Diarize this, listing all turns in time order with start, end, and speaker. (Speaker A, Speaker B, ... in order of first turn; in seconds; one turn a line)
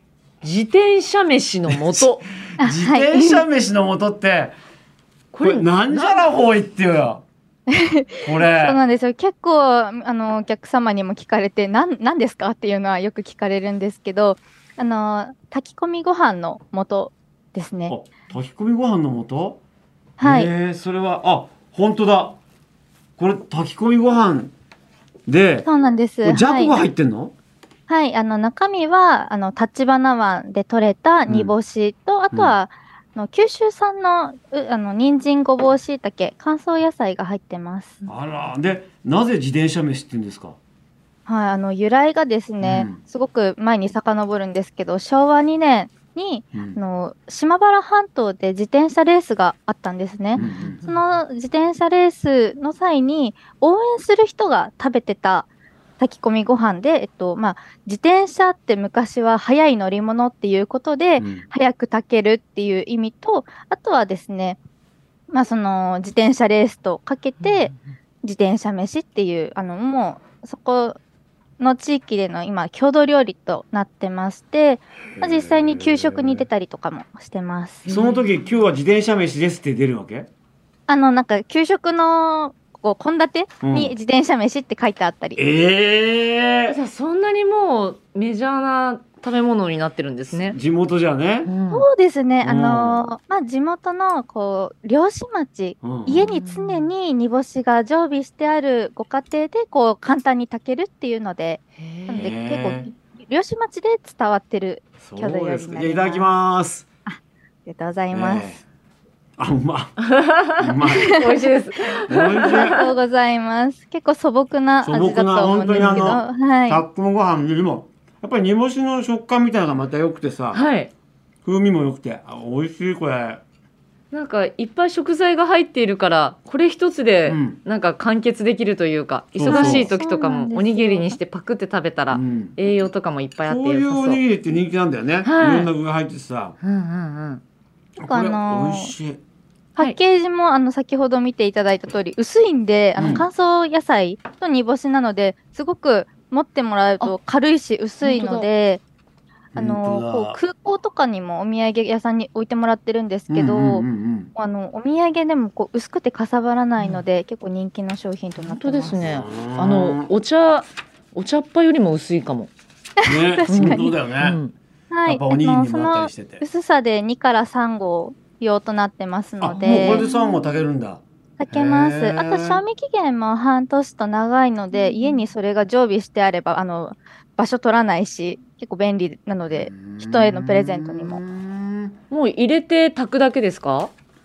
Speaker A: 0.4-2.3
Speaker B: 1.7-4.6
Speaker C: 2.6-3.4
Speaker A: 5.3-6.3
Speaker B: 5.4-7.2
Speaker C: 7.7-17.9
Speaker B: 8.2-8.8
Speaker B: 17.9-19.6
Speaker C: 20.2-20.5
Speaker B: 20.2-22.4
Speaker B: 23.2-24.5
Speaker B: 25.3-25.7
Speaker C: 25.7-26.8
Speaker B: 26.2-27.3
Speaker C: 27.9-38.0
Speaker B: 31.3-31.5
Speaker B: 38.0-40.6
Speaker C: 41.3-64.6
Speaker B: 42.6-43.0
Speaker A: 50.4-51.0
Speaker B: 50.4-50.8
Speaker B: 61.2-61.5
Speaker C: 65.3-71.0
Speaker A: 67.4-67.7
Speaker C: 71.6-77.9
Speaker B: 75.2-76.5
Speaker B: 77.8-80.3
Speaker A: 77.9-78.3
Speaker C: 80.9-85.4
Speaker B: 83.6-83.9
Speaker B: 85.4-86.8
Speaker A: 86.7-90.6
Speaker B: 90.4-91.5
Speaker A: 91.5-91.9
Speaker C: 91.7-106.3
Speaker B: 92.4-93.0
Speaker B: 95.8-96.3
Speaker A: 96.2-96.9
Speaker A: 101.8-102.3
Speaker B: 102.2-102.9
Speaker B: 105.0-106.9
Speaker C: 107.1-108.6
Speaker B: 108.1-108.6
Speaker B: 109.4-110.1
Speaker A: 110.0-112.9
Speaker B: 110.6-111.2
Speaker C: 111.0-111.4
Speaker B: 112.1-112.8
Speaker C: 112.4-116.8
Speaker B: 114.8-120.6
Speaker A: 115.7-116.0
Speaker A: 120.5-120.9
Speaker B: 121.5-123.4
Speaker A: 124.1-134.2
Speaker B: 127.3-127.6
Speaker B: 129.4-129.9
Speaker C: 129.4-131.2
Speaker B: 132.1-132.6
Speaker B: 133.4-136.6
Speaker A: 135.2-135.7
Speaker A: 136.6-137.4
Speaker B: 138.0-139.2
Speaker C: 138.1-138.9
Speaker C: 139.8-148.8
Speaker B: 143.0-143.3
Speaker A: 148.0-148.5
Speaker B: 149.5-150.4
Speaker C: 149.6-159.1
Speaker B: 153.3-154.3
Speaker A: 156.8-157.0
Speaker A: 158.4-162.5
Speaker B: 159.0-160.1
Speaker C: 163.0-163.9
Speaker B: 163.0-164.4
Speaker A: 163.5-164.5
Speaker C: 164.9-170.1
Speaker B: 165.1-166.4
Speaker B: 169.4-172.6
Speaker A: 169.9-170.3
Speaker C: 171.4-181.2
Speaker A: 174.8-175.2
Speaker B: 179.5-181.9
Speaker A: 182.1-183.9